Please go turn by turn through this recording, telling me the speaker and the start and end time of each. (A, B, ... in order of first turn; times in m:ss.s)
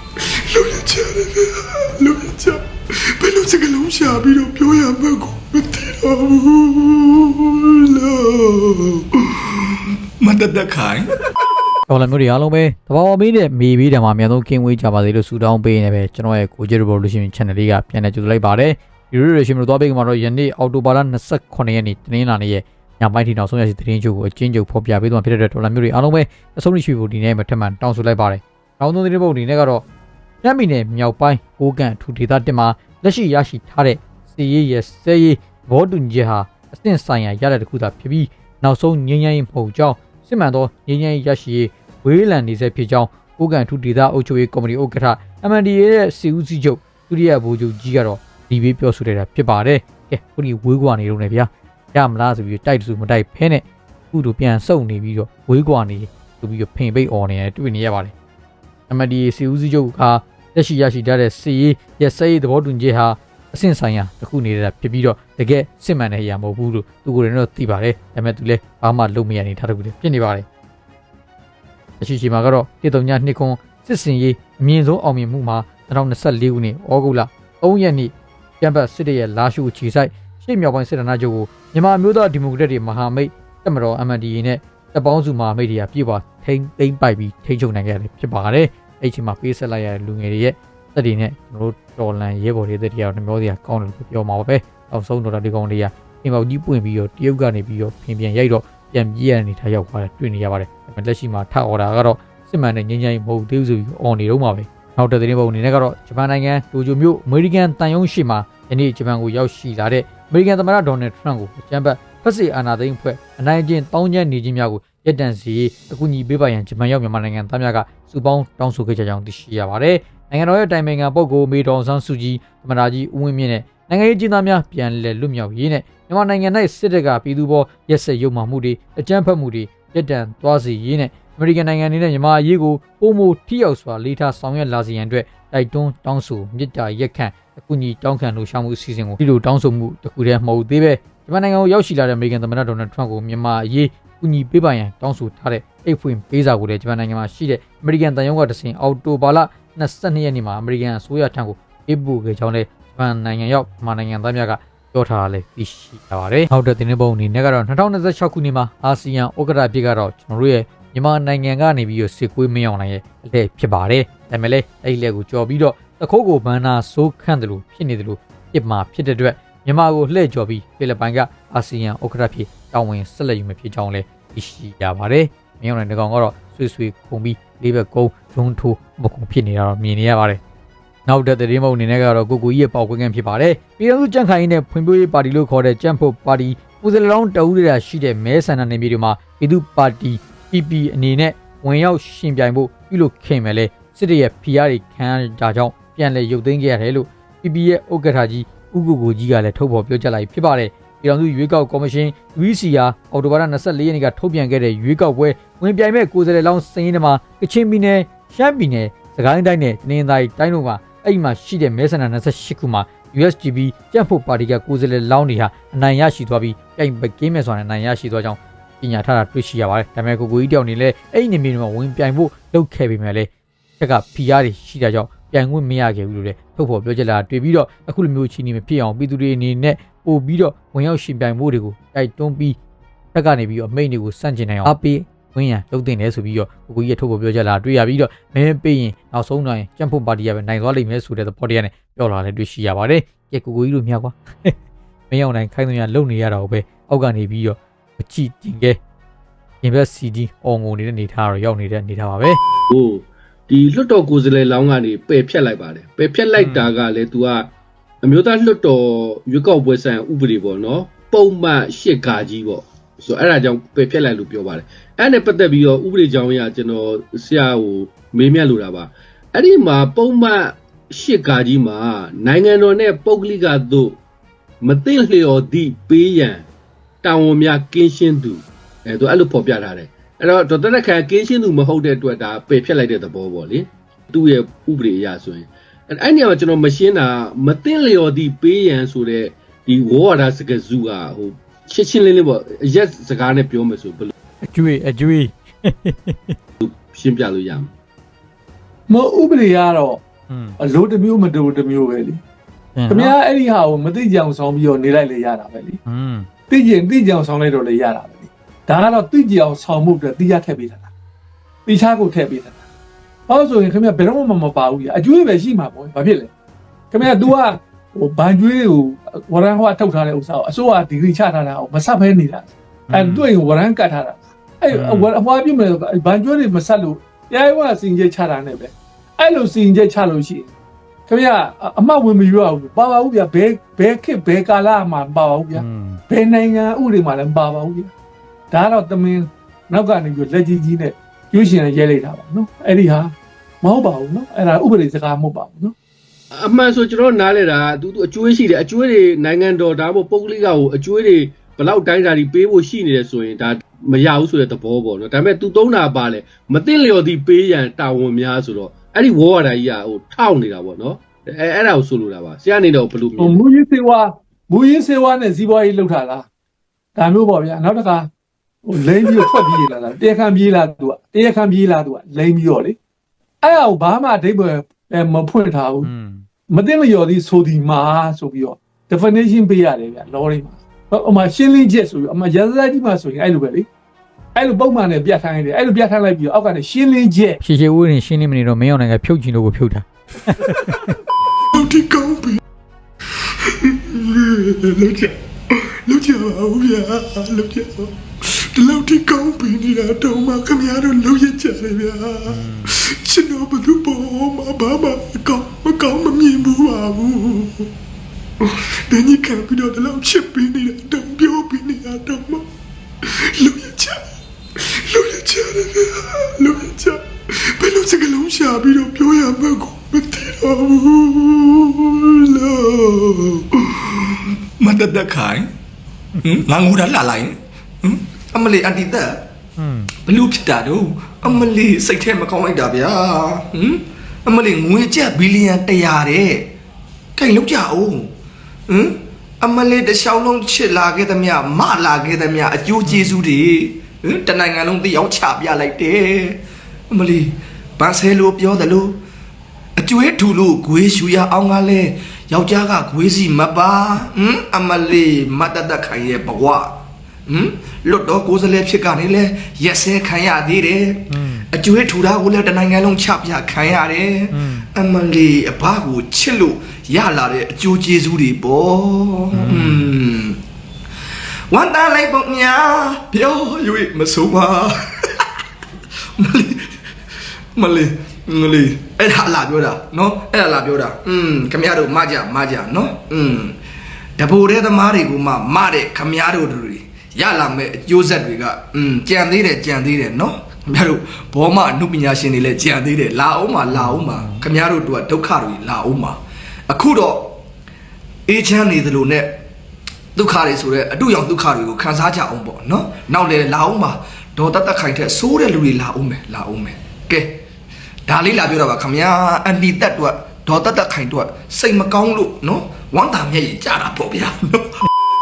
0:02.0-0:02.4 A
0:03.1-0:11.1 A
0:11.9-0:29.8 B
0:30.4-0:58.1 B
0:58.9-1:10.4 B
1:12.0-3:00.4 B
3:01.1-3:52.6 B
3:53.1-4:04.5 B
4:05.1-4:08.8 B
4:09.6-4:12.4 B
4:12.7-4:17.5 C
4:16.4-4:16.7 B
4:18.0-4:34.0 C
4:34.6-4:36.5 C
4:37.0-4:54.1 C
4:54.4-4:56.4 B
4:56.6-4:57.7 C
4:58.9-5:00.0 D
5:00.3-5:00.6 B
5:00.6-5:02.2 D
5:02.8-5:03.1 B
5:02.9-5:05.8 D
5:05.8-5:06.3 B
5:06.5-5:10.9 D
5:11.6-5:12.6 D
5:13.3-5:16.3 D
5:16.9-5:30.5 D
5:22.9-5:23.2 B
5:24.7-5:25.1 B
5:31.1-5:37.9 D
5:35.5-5:36.0 B
5:38.5-5:45.7 D
5:46.3-6:03.4 C
6:03.2-6:06.2 D
6:07.0-6:08.1 D
6:08.6-6:12.8 D
6:13.4-6:15.9 D
6:15.8-6:16.2 B
6:16.5-6:23.7 D
6:24.4-6:27.4 D
6:27.4-6:30.8 B
6:31.5-6:32.4 D
6:34.6-6:35.1 D
6:35.9-6:37.2 D
6:40.4-6:42.3 E
6:42.3-6:42.7 B
6:45.1-6:47.4 E
6:48.9-6:52.4 E
6:53.4-6:54.0 E
6:54.9-6:57.0 E
6:57.6-7:01.1 E
7:01.3-7:05.5 A
7:06.2-7:09.2 A
7:09.6-7:09.9 B
7:10.0-7:16.4 A
7:17.2-7:18.1 A
7:18.7-7:26.4 A
7:22.8-7:23.1 B
7:26.9-7:29.0 A
7:29.8-7:36.7 A
7:37.3-7:50.4 A
7:41.1-7:41.4 B
7:44.3-7:44.7 B
7:49.3-7:49.9 B
7:51.5-7:55.2 A
7:56.2-7:56.7 A
7:57.6-8:03.5 A
8:04.2-8:16.2 A
8:13.7-8:14.4 B
8:16.7-8:17.3 A
8:18.3-8:19.4 A
8:20.1-8:27.4 A
8:28.1-8:34.7 A